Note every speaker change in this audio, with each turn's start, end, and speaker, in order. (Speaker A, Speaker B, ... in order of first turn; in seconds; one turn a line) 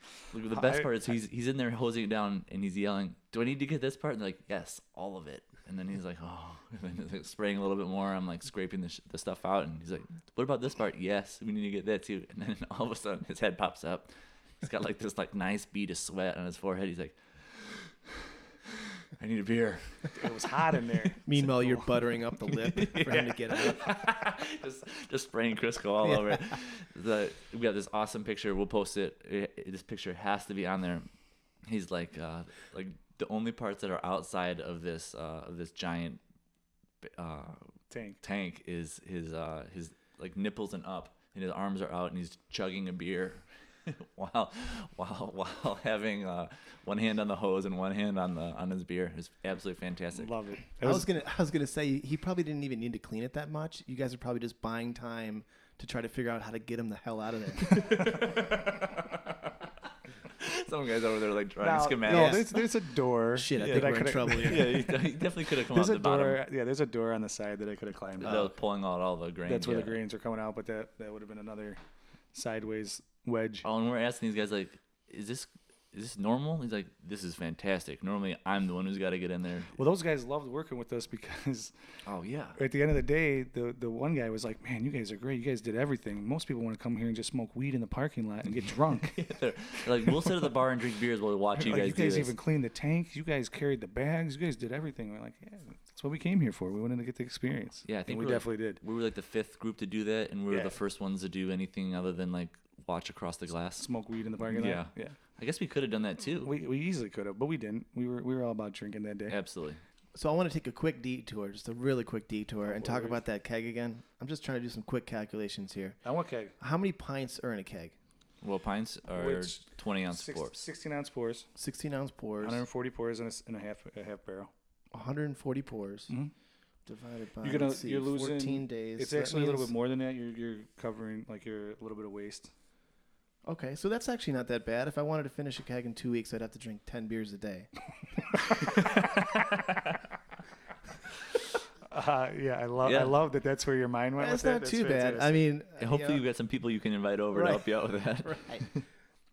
Speaker A: 0.3-18.1
Speaker B: 0.5-0.9
Speaker A: 18.6-20.3
Speaker B: 20.1-21.9
Speaker C: 21.2-24.0
Speaker A: 22.6-31.1
Speaker C: 26.1-26.4
Speaker A: 31.6-36.2
Speaker A: 37.0-37.7
Speaker B: 37.9-38.2
Speaker A: 38.2-50.3
Speaker B: 50.1-51.1
Speaker C: 50.8-58.2
Speaker A: 57.6-59.7
Speaker A: 60.2-62.5
Speaker B: 61.6-68.5
Speaker C: 62.1-62.6
Speaker C: 63.3-64.9
Speaker A: 63.6-66.4
Speaker A: 68.2-70.0
Speaker B: 69.5-71.8
Speaker B: 72.3-73.7
Speaker A: 73.6-79.8
Speaker B: 79.7-81.7
Speaker A: 82.0-82.6
Speaker B: 82.6-89.3
Speaker A: 88.6-92.3
Speaker B: 90.0-90.3
Speaker B: 91.6-98.8
Speaker A: 97.9-103.9
Speaker B: 100.5-100.8
Speaker B: 103.8-105.2
Speaker A: 104.4-106.5
Speaker B: 106.4-109.4
Speaker A: 109.3-109.8
Speaker C: 110.2-116.0
Speaker B: 112.7-113.2
Speaker B: 116.0-116.5
Speaker C: 116.6-118.0
Speaker A: 118.4-120.6
Speaker B: 119.1-121.5
Speaker C: 121.6-122.6
Speaker B: 122.4-124.5
Speaker C: 124.9-126.1
Speaker C: 126.9-129.7
Speaker B: 127.4-132.5
Speaker C: 133.4-137.7
Speaker B: 138.7-139.2
Speaker B: 141.9-145.4
Speaker A: 142.8-143.2
Speaker C: 144.2-146.2
Speaker A: 145.8-148.9
Speaker C: 147.3-148.7